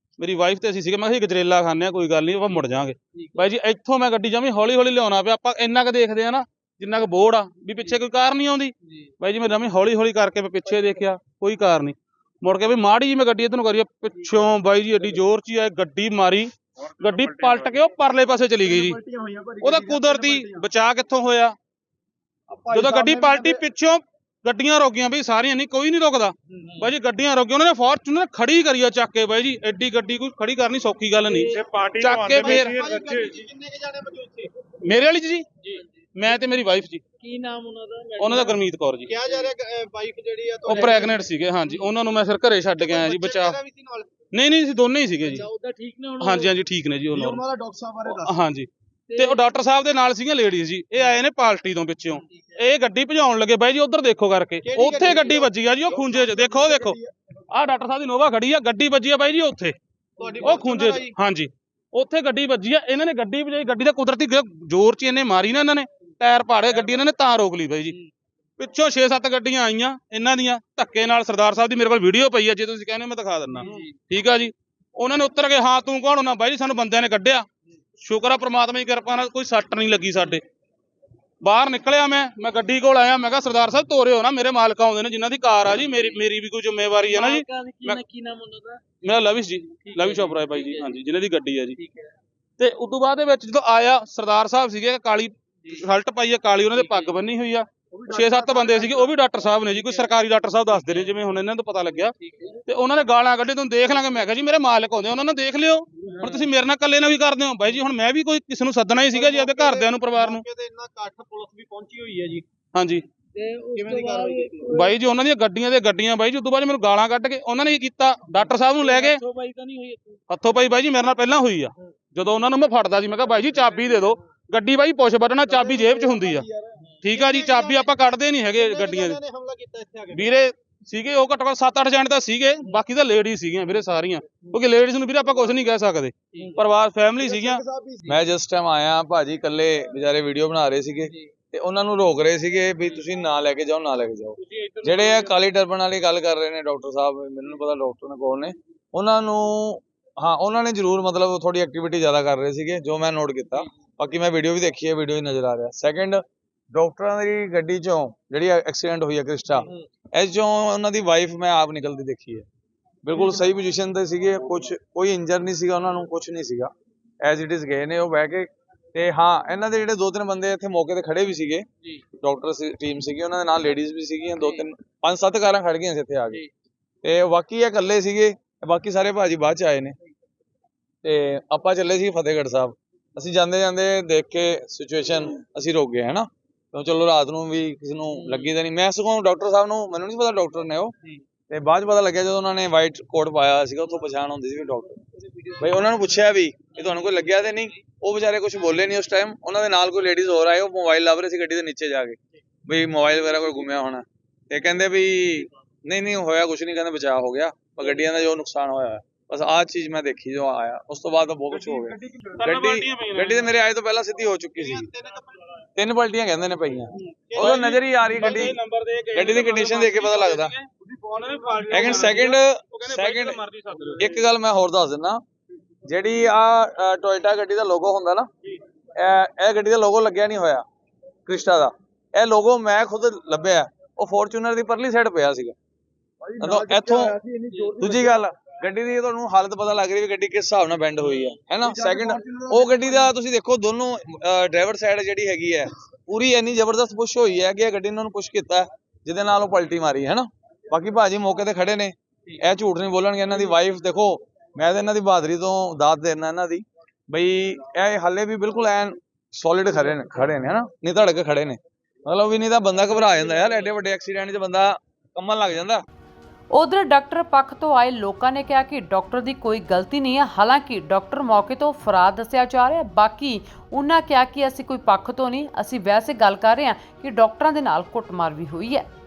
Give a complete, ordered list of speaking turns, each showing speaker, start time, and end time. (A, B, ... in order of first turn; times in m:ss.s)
0:00.2-0:19.0 A
0:03.1-0:03.4 B
0:17.3-0:17.6 C
0:18.6-0:20.7 C
0:19.6-0:21.6 A
0:22.5-0:23.6 C
0:22.7-0:33.2 A
0:26.5-0:26.9 C
0:31.2-0:31.7 B
0:32.3-0:32.7 B
0:32.3-0:34.5 C
0:34.8-0:35.5 A
0:36.2-0:37.0 A
0:37.2-0:38.6 B
0:38.2-0:39.1 A
0:39.1-0:41.2 C
0:39.2-0:39.5 B
0:40.7-0:43.6 A
0:41.7-0:41.9 B
0:42.8-0:44.1 C
0:44.3-0:45.4 A
0:45.3-0:46.6 B
0:46.2-0:47.4 A
0:47.1-0:48.3 C
0:48.2-0:57.0 A
0:49.1-0:49.5 B
0:52.1-0:52.5 C
0:54.6-0:57.1 C
0:57.5-0:59.8 A
1:00.2-1:01.2 C
1:00.4-1:08.0 A
1:08.6-1:17.5 A
1:13.6-1:13.9 B
1:18.0-1:20.4 A
1:21.4-1:28.0 A
1:25.9-1:26.2 B
1:27.0-1:29.0 B
1:29.0-1:31.8 A
1:29.7-1:31.0 B
1:31.8-1:32.1 B
1:32.6-1:42.1 A
1:36.7-1:37.2 B
1:37.9-1:39.1 C
1:40.8-1:41.2 B
1:42.2-1:42.6 B
1:42.6-1:50.4 A
1:46.2-1:46.5 B
1:49.1-1:52.4 C
1:52.7-1:53.0 A
1:53.3-1:55.0 B
1:53.8-1:54.8 C
1:54.7-1:59.2 A
1:58.8-2:00.2 B
2:00.3-2:06.4 A
2:03.5-2:04.2 C
2:05.4-2:10.3 C
2:07.0-2:09.2 A
2:10.1-2:17.6 A
2:16.3-2:16.6 B
2:17.2-2:18.1 C
2:18.1-2:42.4 D
2:24.5-2:25.2 A
2:43.0-2:46.7 D
2:47.2-2:51.7 D
2:52.2-2:56.4 D
2:54.3-2:54.6 B
2:57.0-3:00.0 D
3:01.0-3:10.9 D
3:08.1-3:08.5 B
3:11.5-3:15.0 D
3:15.4-3:15.9 B
3:15.6-3:34.9 D
3:16.8-3:17.2 B
3:31.5-3:33.5 A
3:34.5-3:35.3 C
3:35.8-3:38.6 D
3:37.1-3:37.8 C
3:37.4-3:44.2 A
3:39.1-3:40.5 D
3:41.7-3:43.4 D
3:44.0-3:45.2 D
3:45.8-3:48.3 D
3:49.0-3:50.6 D
3:51.2-3:55.6 D
3:56.2-3:58.2 C
3:56.4-3:57.2 D
3:57.8-4:25.8 D
4:01.1-4:03.1 C
4:26.5-4:38.9 E